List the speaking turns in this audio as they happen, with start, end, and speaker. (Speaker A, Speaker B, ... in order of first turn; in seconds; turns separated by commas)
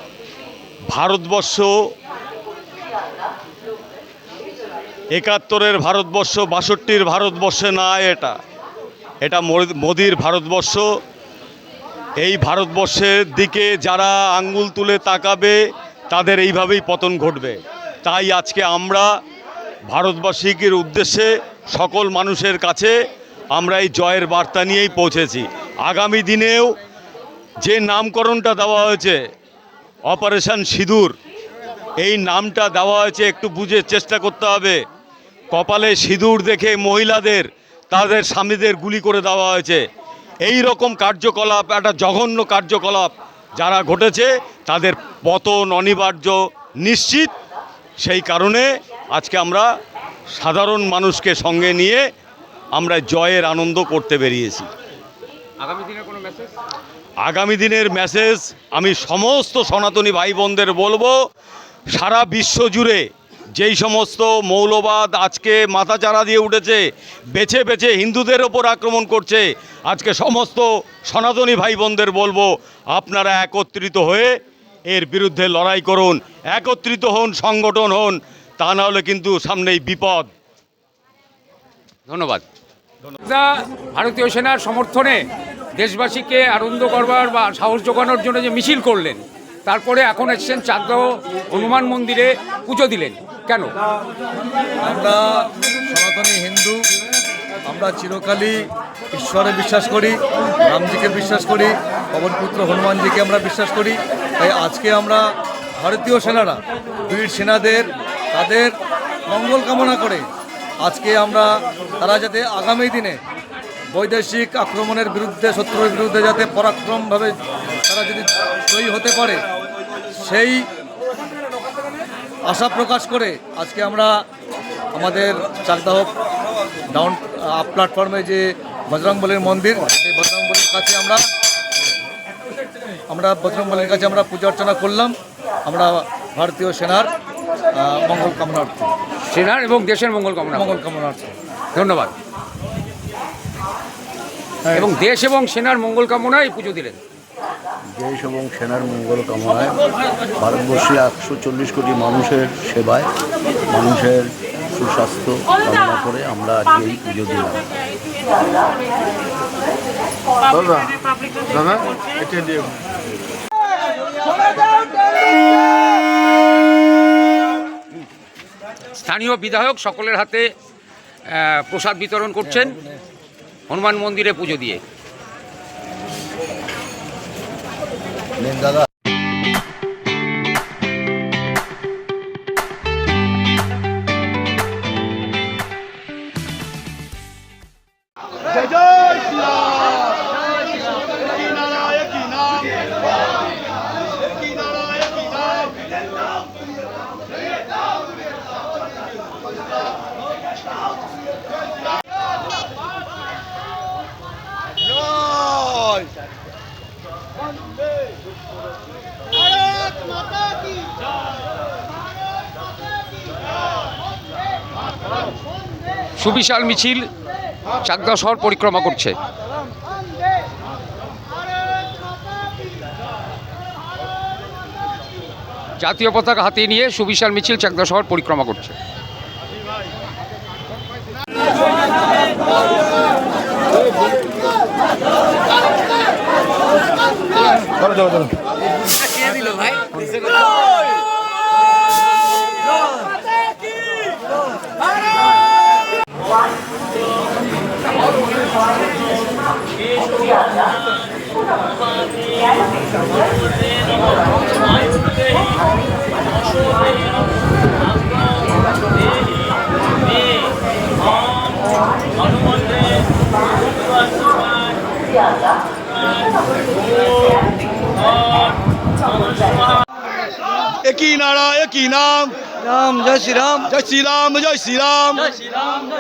Speaker A: 0.9-1.7, Speaker A: 5.1-8.3, Speaker A: 9.2-10.8, Speaker A: 12.2-15.5, Speaker A: 16.1-19.1, Speaker A: 19.9-22.9, Speaker A: 23.5-26.7, Speaker A: 27.6-29.2, Speaker A: 30.1-31.1, Speaker A: 32.0-34.8, Speaker A: 35.5-39.8, Speaker A: 40.4-47.3, Speaker A: 48.0-49.7, Speaker A: 50.3-52.0, Speaker A: 52.7-54.7, Speaker B: 55.6-56.5, Speaker A: 57.2-61.1, Speaker A: 61.9-66.8, Speaker A: 67.3-74.3, Speaker A: 74.9-80.3, Speaker B: 82.1-82.4, Speaker B: 83.2-93.7, Speaker C: 94.8-96.8, Speaker C: 97.7-105.2, Speaker C: 105.8-108.7, Speaker C: 109.3-110.3, Speaker C: 110.8-111.5, Speaker C: 112.0-113.2, Speaker C: 113.9-119.4, Speaker C: 120.0-120.6, Speaker C: 122.5-124.1, Speaker C: 124.9-126.1, Speaker C: 126.9-131.2, Speaker C: 133.1-137.1, Speaker C: 137.8-138.8, Speaker B: 139.2-140.8, Speaker C: 140.5-141.3, Speaker B: 141.7-142.1, Speaker B: 144.7-147.0, Speaker D: 147.9-149.8, Speaker D: 150.4-153.1, Speaker D: 153.7-157.7, Speaker B: 168.9-170.5, Speaker B: 171.3-172.8, Speaker B: 173.7-174.8, Speaker E: 188.9-189.9, Speaker E: 191.6-192.5, Speaker E: 195.0-195.2, Speaker B: 216.2-217.1, Speaker B: 217.8-219.2, Speaker B: 225.8-228.8, Speaker E: 270.8-275.6, Speaker C: 272.7-273.6